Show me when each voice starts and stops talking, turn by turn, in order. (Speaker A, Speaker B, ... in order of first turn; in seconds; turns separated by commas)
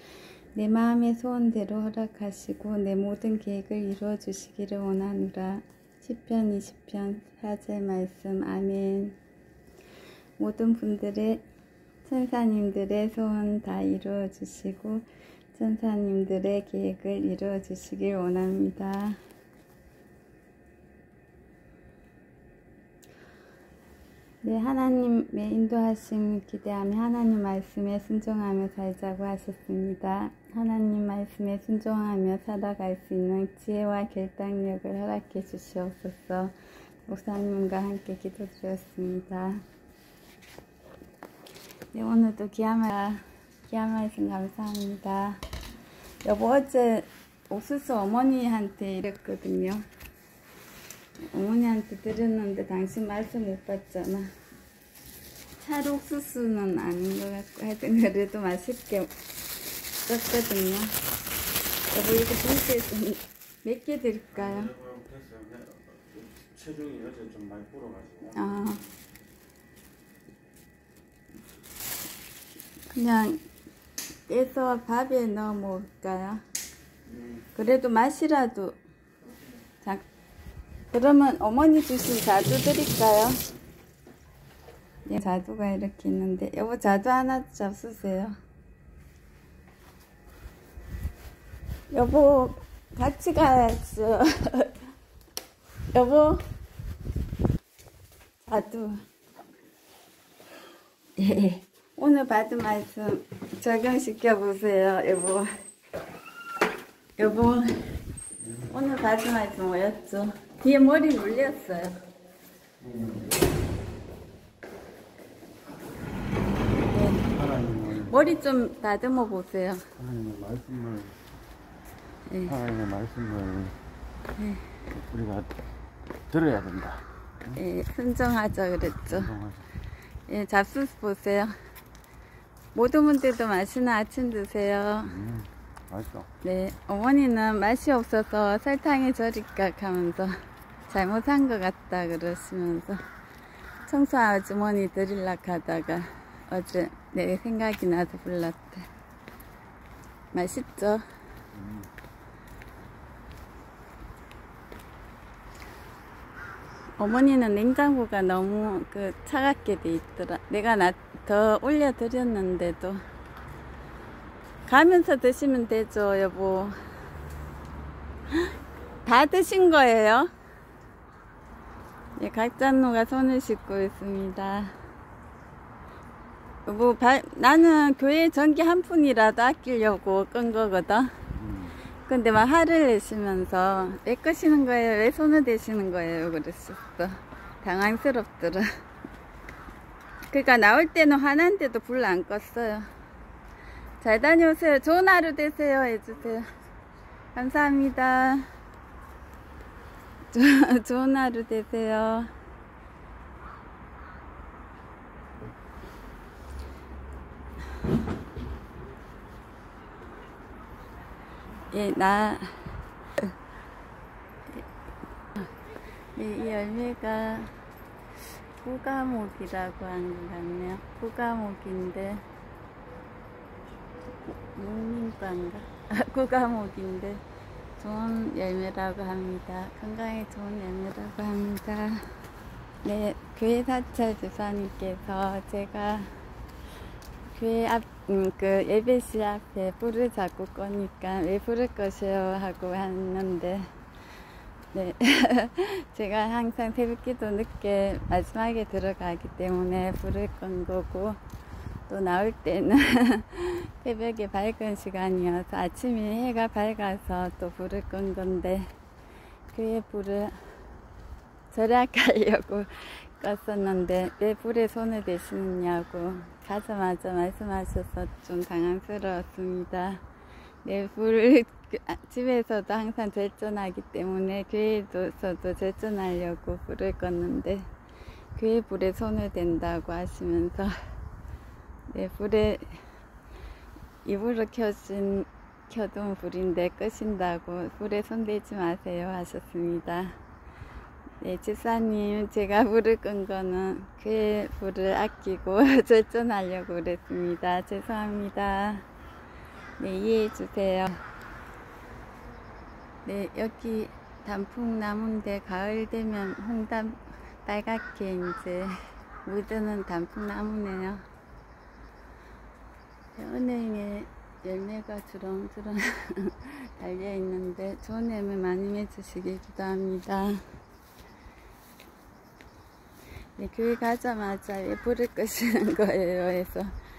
Speaker A: 0.6-9.2, Speaker A: 10.4-11.4, Speaker A: 12.1-19.2, Speaker A: 24.4-36.5, Speaker A: 37.1-39.6, Speaker A: 41.9-45.4, Speaker A: 46.2-49.8, Speaker A: 51.3-54.3, Speaker A: 55.6-59.1, Speaker A: 60.0-61.0, Speaker A: 61.9-64.7, Speaker B: 64.4-68.5, Speaker A: 68.3-68.8, Speaker A: 72.9-73.4, Speaker A: 74.3-76.4, Speaker A: 77.5-78.8, Speaker A: 80.9-83.4, Speaker A: 85.1-88.3, Speaker A: 91.9-94.8, Speaker A: 95.9-96.4, Speaker A: 98.5-99.0, Speaker A: 101.2-105.5, Speaker A: 107.2-107.7, Speaker A: 108.7-112.0, Speaker B: 112.8-113.2, Speaker A: 116.9-117.3, Speaker B: 117.3-118.1, Speaker A: 118.0-119.9, Speaker B: 120.0-121.2, Speaker A: 122.3-122.6, Speaker B: 122.5-123.8, Speaker A: 124.4-124.7, Speaker B: 124.9-125.5, Speaker B: 126.3-127.6, Speaker A: 127.5-129.3, Speaker B: 129.1-129.7, Speaker A: 130.3-131.5, Speaker A: 132.7-135.2, Speaker B: 135.1-136.3, Speaker A: 136.4-140.4, Speaker A: 140.9-143.0, Speaker A: 143.9-148.9, Speaker A: 150.3-151.1, Speaker B: 151.6-151.8, Speaker A: 157.0-163.0, Speaker A: 164.7-166.8, Speaker A: 169.0-170.3, Speaker A: 172.2-174.7, Speaker A: 176.7-181.1, Speaker B: 181.5-181.7, Speaker A: 182.1-188.7, Speaker A: 190.3-192.9, Speaker A: 194.0-196.5, Speaker A: 197.3-198.5, Speaker A: 200.3-202.3, Speaker A: 211.7-213.3, Speaker A: 216.2-217.6, Speaker A: 218.6-222.2, Speaker A: 224.2-227.2, Speaker A: 227.8-232.1, Speaker A: 232.8-236.2, Speaker A: 237.3-243.7, Speaker A: 244.7-251.2, Speaker A: 251.9-258.7, Speaker A: 259.5-260.4, Speaker A: 261.5-270.0, Speaker A: 270.6-277.7, Speaker A: 278.4-280.8, Speaker A: 281.9-282.8, Speaker A: 284.1-290.2, Speaker A: 291.2-298.9, Speaker A: 299.8-301.0, Speaker A: 303.1-311.0, Speaker A: 313.1-320.4, Speaker A: 323.4-326.7